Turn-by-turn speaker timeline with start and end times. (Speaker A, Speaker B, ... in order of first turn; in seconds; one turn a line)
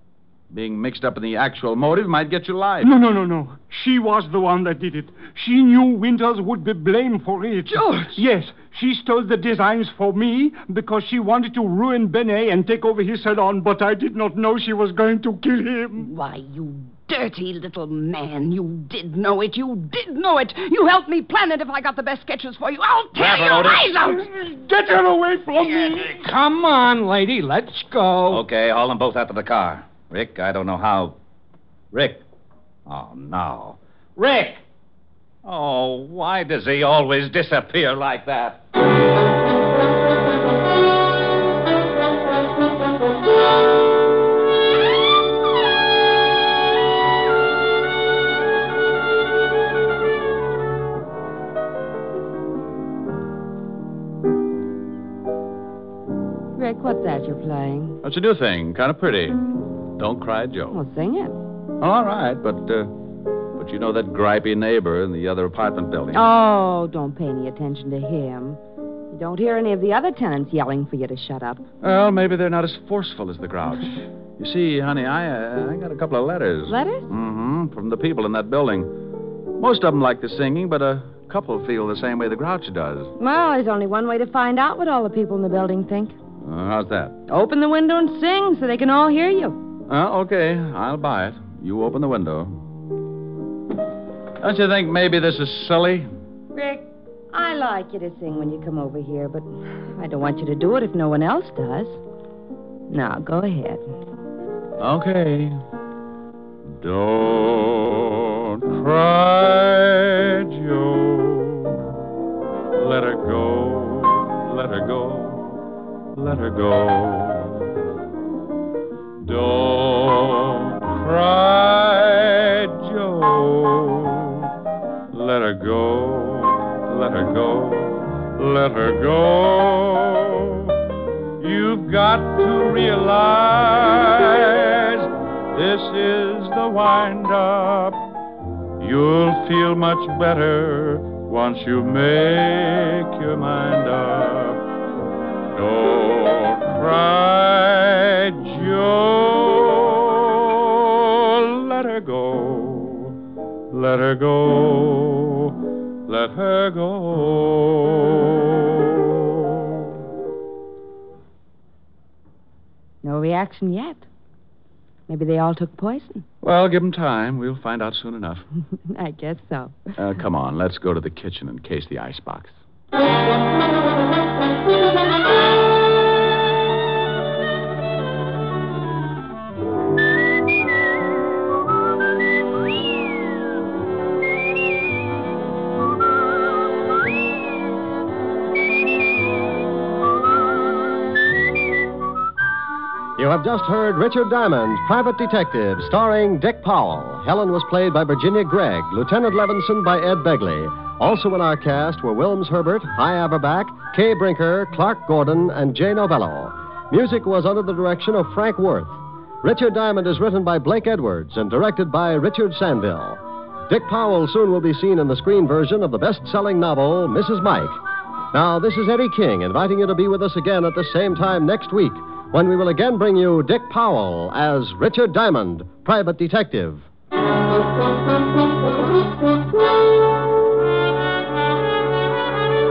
Speaker A: 0.5-2.9
Speaker B: 2.8-16.1
Speaker C: 7.7-8.2
Speaker C: 16.0-24.2
Speaker D: 23.1-23.9
Speaker B: 24.1-26.2
Speaker E: 25.7-28.4
Speaker D: 28.3-31.2
Speaker D: 31.9-32.2
Speaker D: 32.9-34.6
Speaker D: 35.4-38.6
Speaker F: 56.5-58.0
Speaker A: 58.0-59.4
Speaker A: 59.9-60.8
Speaker F: 60.7-61.4
Speaker A: 61.8-62.9
Speaker A: 63.6-66.2
Speaker F: 66.1-68.6
Speaker F: 69.1-71.7
Speaker A: 71.8-79.0
Speaker F: 76.7-77.1
Speaker A: 79.6-83.1
Speaker F: 83.2-86.2
Speaker A: 86.4-87.2
Speaker F: 87.3-89.6
Speaker A: 89.9-92.6
Speaker A: 94.4-96.1
Speaker F: 96.5-102.0
Speaker F: 102.9-103.9
Speaker A: 104.8-105.6
Speaker A: 106.8-111.8
Speaker A: 112.8-115.6
Speaker A: 116.1-117.7
Speaker A: 119.2-124.4
Speaker A: 125.1-130.7
Speaker A: 131.4-138.0
Speaker A: 138.8-144.6
Speaker A: 145.5-153.1
Speaker A: 153.7-155.5
Speaker A: 156.1-159.4
Speaker F: 163.0-164.0
Speaker F: 165.1-166.2
Speaker A: 166.4-168.4
Speaker F: 168.9-169.9
Speaker A: 170.0-172.5
Speaker G: 193.2-217.8
Speaker G: 218.3-226.9